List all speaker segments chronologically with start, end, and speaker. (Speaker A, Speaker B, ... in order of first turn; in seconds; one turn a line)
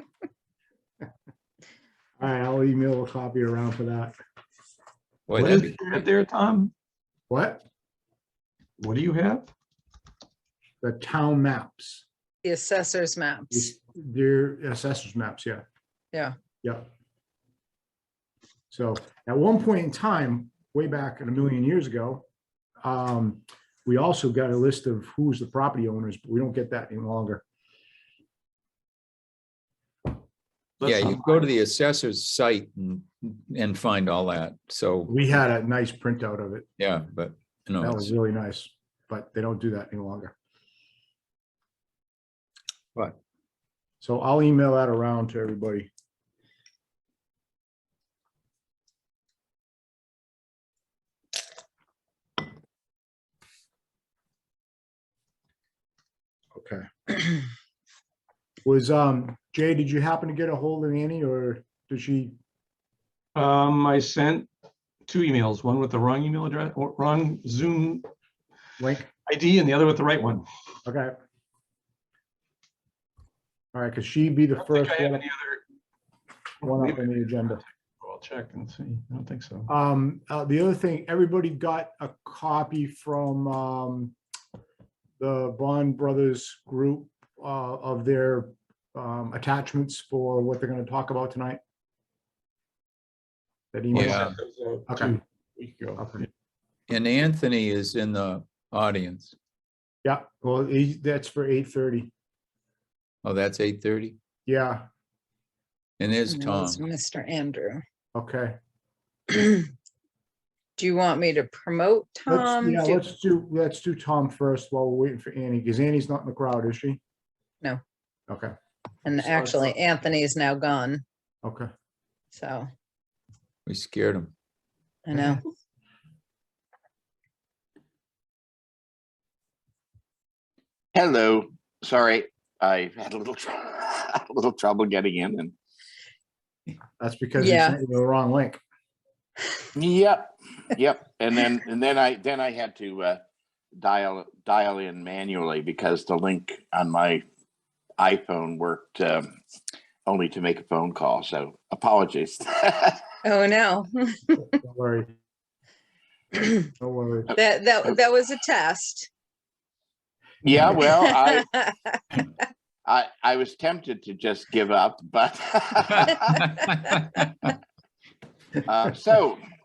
Speaker A: 2.2-4.2
Speaker B: 5.3-6.0
Speaker C: 5.3-6.7
Speaker A: 7.3-7.6
Speaker C: 8.8-9.5
Speaker A: 10.8-12.0
Speaker D: 12.4-13.7
Speaker A: 13.5-15.6
Speaker A: 16.6-16.9
Speaker A: 18.7-22.2
Speaker A: 22.8-27.4
Speaker C: 30.8-31.4
Speaker B: 30.8-35.1
Speaker A: 35.1-36.7
Speaker B: 36.8-38.1
Speaker A: 37.8-40.3
Speaker A: 44.0-45.9
Speaker A: 56.5-57.4
Speaker A: 58.6-62.4
Speaker C: 63.3-64.5
Speaker C: 65.0-68.1
Speaker A: 68.8-69.1
Speaker C: 69.2-70.5
Speaker A: 70.8-71.1
Speaker A: 73.7-75.2
Speaker C: 74.6-75.6
Speaker A: 76.6-77.6
Speaker C: 76.6-79.7
Speaker A: 79.7-84.2
Speaker A: 85.2-91.6
Speaker A: 93.7-94.3
Speaker B: 93.9-94.3
Speaker C: 93.9-96.1
Speaker A: 94.9-95.2
Speaker A: 96.0-96.2
Speaker B: 96.9-99.3
Speaker A: 100.0-102.1
Speaker B: 103.2-104.2
Speaker A: 104.5-104.9
Speaker B: 106.0-106.8
Speaker D: 106.3-107.8
Speaker A: 108.1-108.6
Speaker D: 109.3-109.7
Speaker D: 110.8-113.0
Speaker A: 112.3-117.0
Speaker D: 119.0-121.0
Speaker A: 121.4-121.7
Speaker D: 122.3-122.7
Speaker B: 123.7-124.3
Speaker D: 125.0-125.4
Speaker E: 130.9-135.5
Speaker A: 137.0-138.6
Speaker D: 137.4-137.8
Speaker E: 139.7-143.2
Speaker E: 143.8-147.2
Speaker E: 148.0-149.3
Speaker E: 150.1-153.0
Speaker D: 153.2-154.5
Speaker A: 154.5-155.1
Speaker D: 156.4-156.6
Speaker A: 156.8-157.3
Speaker D: 157.3-159.1
Speaker E: 160.4-161.5
Speaker D: 160.8-162.2
Speaker E: 162.8-166.4
Speaker B: 166.3-167.3
Speaker E: 168.7-169.4